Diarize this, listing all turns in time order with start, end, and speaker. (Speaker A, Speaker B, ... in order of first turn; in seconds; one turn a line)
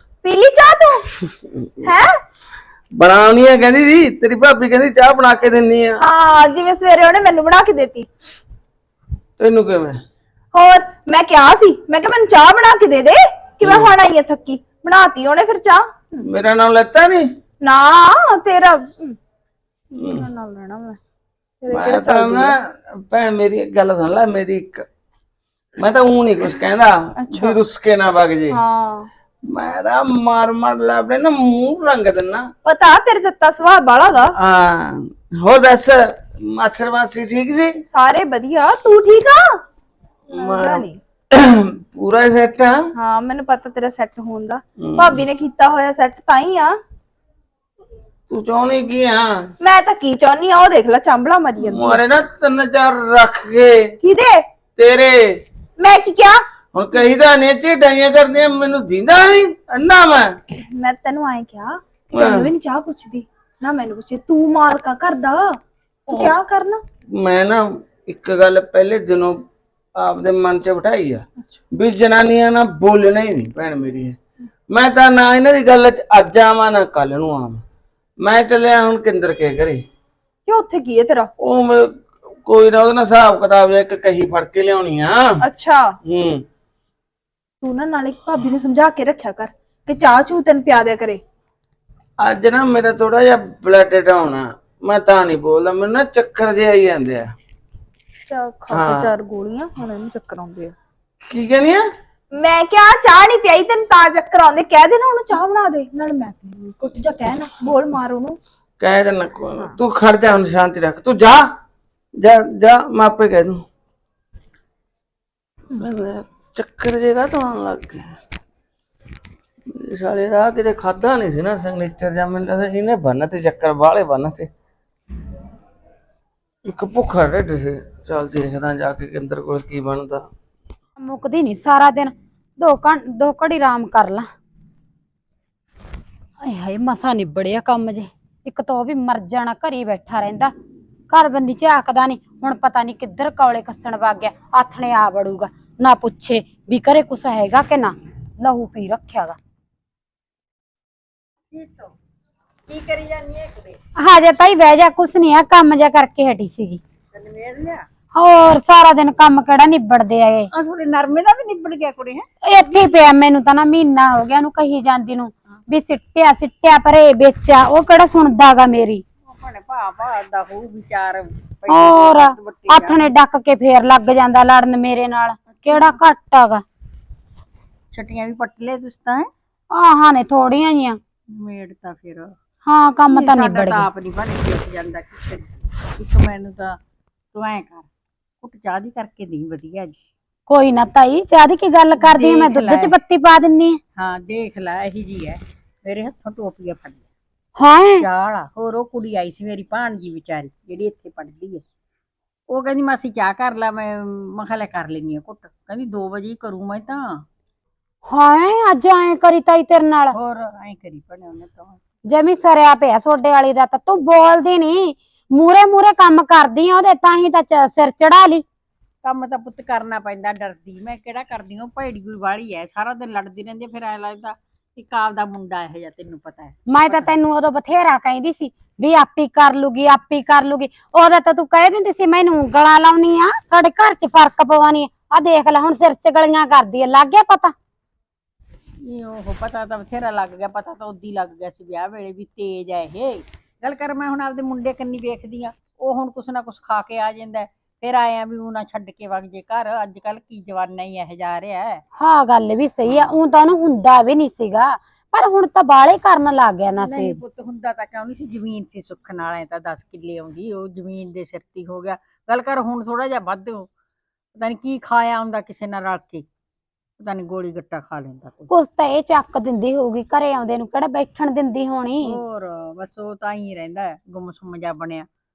Speaker A: 0.2-1.0
Speaker B: 3.0-6.0
Speaker A: 6.0-8.1
Speaker B: 9.4-9.9
Speaker A: 10.5-16.2
Speaker B: 13.6-13.9
Speaker B: 16.3-17.2
Speaker A: 17.6-19.1
Speaker A: 20.1-21.0
Speaker A: 21.6-22.5
Speaker B: 21.7-22.5
Speaker B: 23.1-24.8
Speaker B: 25.8-28.6
Speaker A: 27.2-27.6
Speaker A: 28.5-29.1
Speaker B: 29.5-32.5
Speaker A: 32.6-34.3
Speaker B: 34.4-37.7
Speaker A: 37.9-39.4
Speaker A: 40.3-41.0
Speaker B: 40.3-42.7
Speaker A: 43.0-46.7
Speaker B: 44.8-45.2
Speaker B: 48.3-49.3
Speaker A: 49.6-52.0
Speaker B: 51.6-53.7
Speaker A: 54.0-54.4
Speaker B: 54.8-55.1
Speaker A: 55.8-56.4
Speaker B: 56.7-60.3
Speaker A: 60.8-65.4
Speaker B: 62.1-62.5
Speaker A: 66.1-66.8
Speaker B: 67.2-69.3
Speaker B: 70.0-74.2
Speaker B: 74.7-77.6
Speaker B: 78.2-79.8
Speaker A: 80.5-81.3
Speaker B: 81.4-81.9
Speaker B: 82.5-85.2
Speaker A: 85.4-85.8
Speaker B: 86.0-86.4
Speaker A: 87.6-91.2
Speaker B: 92.2-97.3
Speaker A: 98.3-100.7
Speaker B: 98.7-99.1
Speaker B: 101.3-101.8
Speaker A: 102.4-108.3
Speaker B: 108.8-111.4
Speaker B: 112.2-113.6
Speaker B: 115.8-118.1
Speaker B: 119.8-124.5
Speaker B: 126.7-130.2
Speaker C: 131.0-134.3
Speaker C: 136.4-140.5
Speaker C: 141.1-149.4
Speaker D: 151.5-151.9
Speaker D: 152.7-153.7
Speaker C: 154.0-156.8
Speaker D: 157.1-157.8
Speaker C: 158.1-160.5
Speaker D: 160.5-162.2
Speaker C: 162.4-169.0
Speaker D: 169.3-173.0
Speaker C: 171.7-176.6
Speaker D: 175.5-175.9
Speaker D: 177.9-179.2
Speaker C: 179.7-181.0
Speaker D: 181.4-182.2
Speaker C: 182.7-183.9
Speaker D: 183.1-186.7
Speaker D: 187.3-187.8
Speaker D: 188.4-190.0
Speaker C: 190.5-193.8
Speaker D: 191.9-192.9
Speaker D: 194.0-197.0
Speaker C: 197.6-198.1
Speaker D: 198.0-201.6
Speaker D: 202.5-207.0
Speaker C: 208.1-210.2
Speaker D: 210.2-211.7
Speaker C: 212.1-218.4
Speaker D: 219.1-227.1
Speaker C: 226.7-237.5
Speaker D: 238.9-251.7
Speaker C: 252.0-257.2
Speaker D: 256.8-263.7
Speaker D: 264.4-266.2
Speaker D: 267.0-268.5
Speaker C: 268.5-272.2
Speaker D: 272.1-275.0